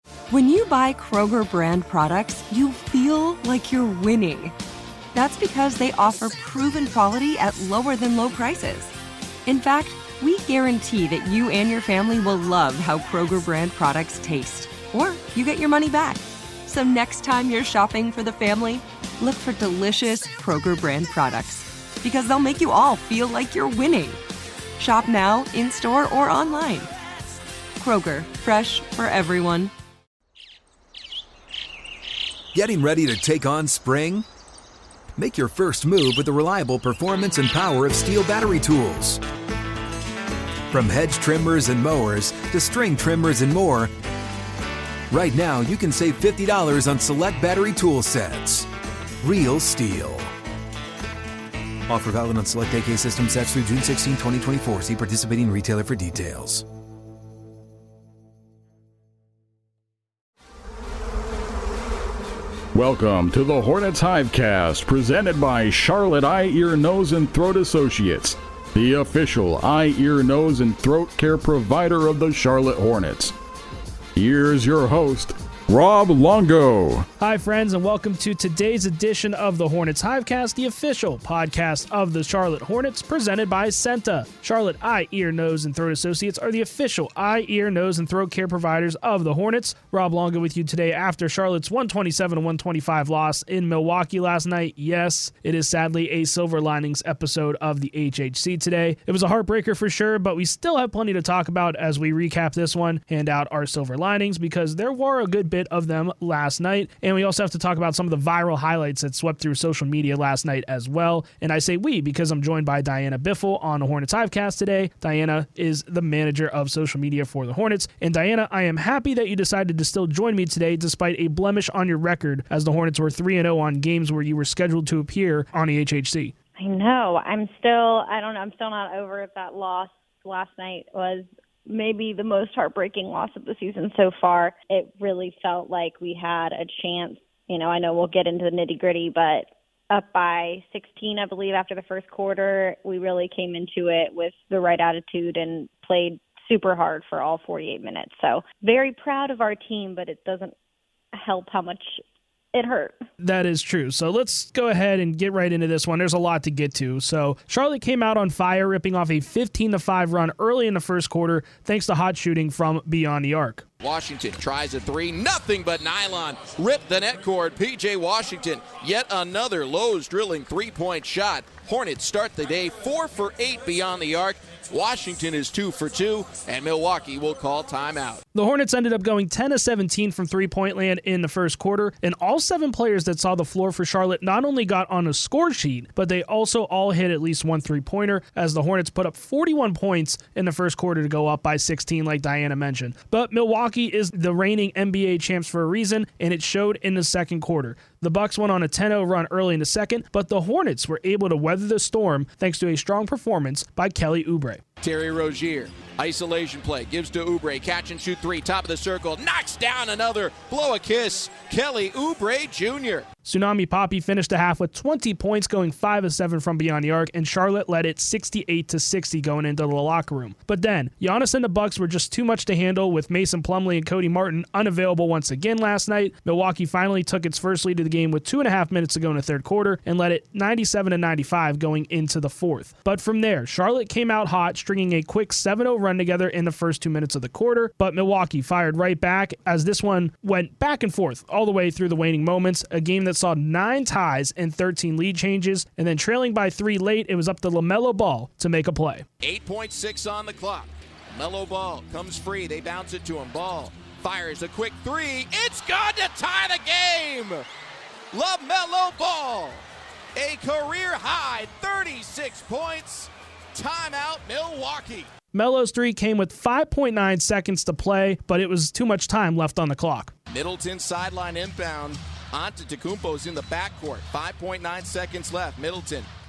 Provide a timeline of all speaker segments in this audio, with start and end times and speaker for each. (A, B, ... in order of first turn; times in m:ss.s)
0:00.3-0:04.5 A
0:05.1-0:08.9 A
0:09.4-0:24.2 A
0:24.8-0:26.9 A
0:27.8-0:29.7 A
0:32.5-0:34.2 B
0:35.1-0:39.2 B
0:40.7-0:43.9 B
0:45.1-0:48.7 B
0:49.2-0:50.3 B
0:51.9-0:56.6 B
1:02.7-1:13.3 C
1:14.2-1:17.0 C
1:17.2-2:06.3 D
2:06.6-2:30.5 E
2:31.1-2:32.0 E
2:32.5-2:33.0 E
2:33.2-2:43.6 D
2:43.8-2:58.2 F
2:58.3-3:24.6 D
3:24.8-3:33.0 F
3:33.2-4:09.0 D
4:09.2-4:17.4 F
4:18.1-4:19.6 F
4:20.1-4:25.1 F
4:25.3-4:30.1 D
4:30.3-4:36.1 F